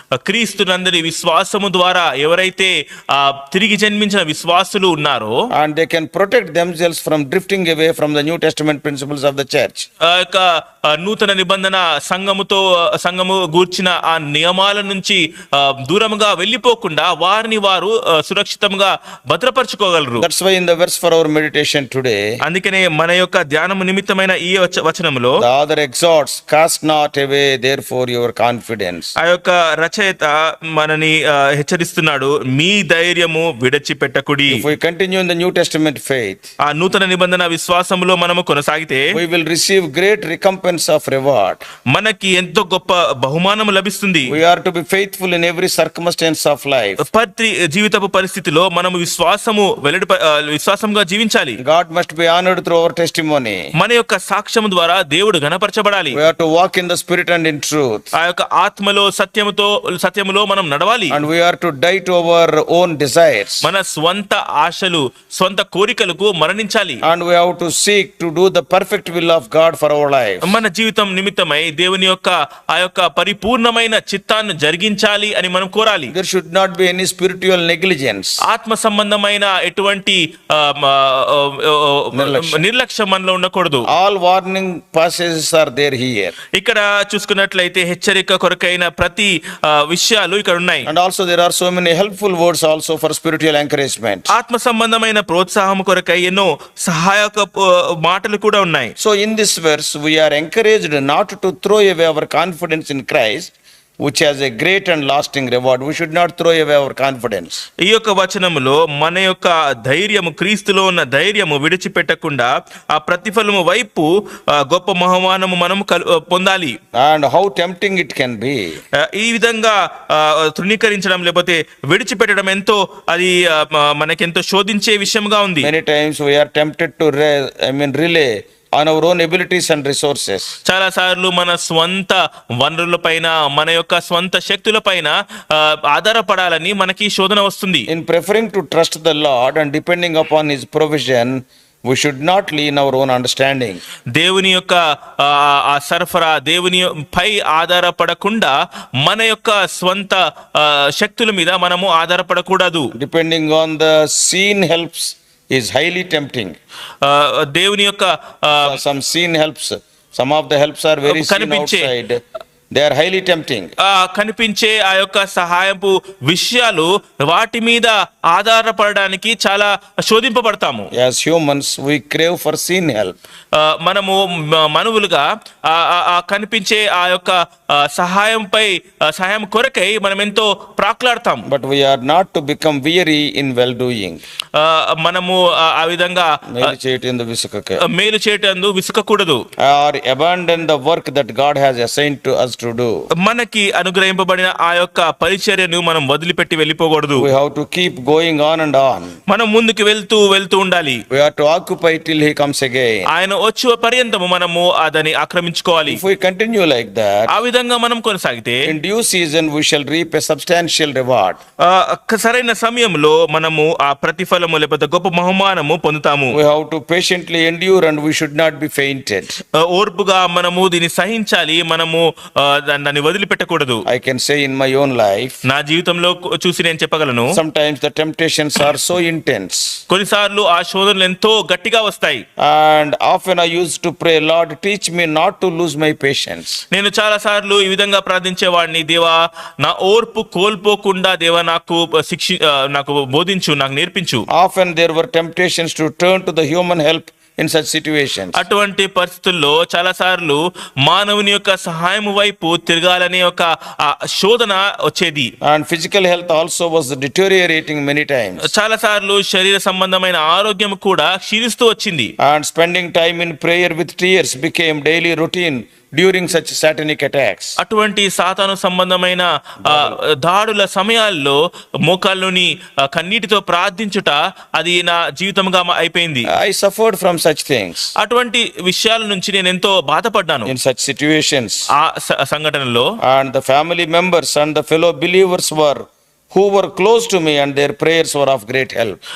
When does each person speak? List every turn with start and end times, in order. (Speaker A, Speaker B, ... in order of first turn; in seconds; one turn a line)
Speaker A: 0.1-5.4
Speaker B: 5.5-9.9
Speaker A: 10.0-20.2
Speaker B: 20.2-22.3
Speaker A: 22.4-25.4
Speaker B: 25.4-29.1
Speaker A: 29.2-34.6
Speaker B: 34.5-36.5
Speaker A: 36.6-39.2
Speaker B: 39.1-41.6
Speaker A: 41.9-44.4
Speaker B: 44.3-47.0
Speaker A: 47.0-51.6
Speaker B: 51.6-53.7
Speaker A: 53.8-56.2
Speaker B: 56.1-58.1
Speaker A: 58.1-61.2
Speaker B: 61.1-63.7
Speaker A: 63.6-67.0
Speaker B: 67.0-70.6
Speaker A: 70.4-76.1
Speaker B: 76.1-78.4
Speaker A: 78.4-83.9
Speaker B: 82.1-82.6
Speaker B: 83.9-86.3
Speaker A: 86.5-90.9
Speaker B: 90.8-94.3
Speaker A: 94.3-98.9
Speaker B: 99.0-107.6
Speaker A: 107.8-116.8
Speaker B: 116.9-118.8
Speaker A: 118.9-125.7
Speaker B: 125.6-130.6
Speaker A: 130.6-137.9
Speaker B: 137.9-143.8
Speaker A: 144.1-152.9
Speaker B: 152.9-156.6
Speaker A: 157.0-158.8
Speaker B: 158.6-162.2
Speaker A: 161.1-161.9
Speaker B: 162.7-163.7
Speaker A: 163.8-170.9
Speaker B: 170.9-173.2
Speaker A: 173.5-181.5
Speaker B: 181.4-184.2
Speaker A: 184.5-186.7
Speaker B: 186.5-187.8
Speaker A: 187.8-189.4
Speaker B: 189.6-193.0
Speaker A: 193.2-197.3
Speaker B: 197.2-199.2
Speaker A: 199.3-201.0
Speaker B: 201.1-203.1
Speaker A: 203.1-206.0
Speaker B: 205.9-207.3
Speaker A: 207.3-208.7
Speaker B: 208.7-211.4
Speaker A: 211.6-216.4
Speaker B: 216.3-219.4
Speaker A: 219.5-223.8
Speaker B: 223.9-225.4
Speaker A: 225.4-227.4
Speaker B: 227.3-229.8
Speaker A: 229.9-232.2
Speaker B: 232.4-236.6
Speaker A: 236.7-244.2
Speaker B: 244.3-248.4
Speaker A: 248.3-255.3
Speaker B: 255.4-258.5
Speaker A: 258.4-262.1
Speaker B: 262.2-267.6
Speaker A: 267.6-276.3
Speaker B: 269.6-269.9
Speaker B: 276.3-277.9
Speaker A: 278.0-280.5
Speaker B: 280.4-281.7
Speaker A: 281.7-282.9
Speaker B: 283.0-289.0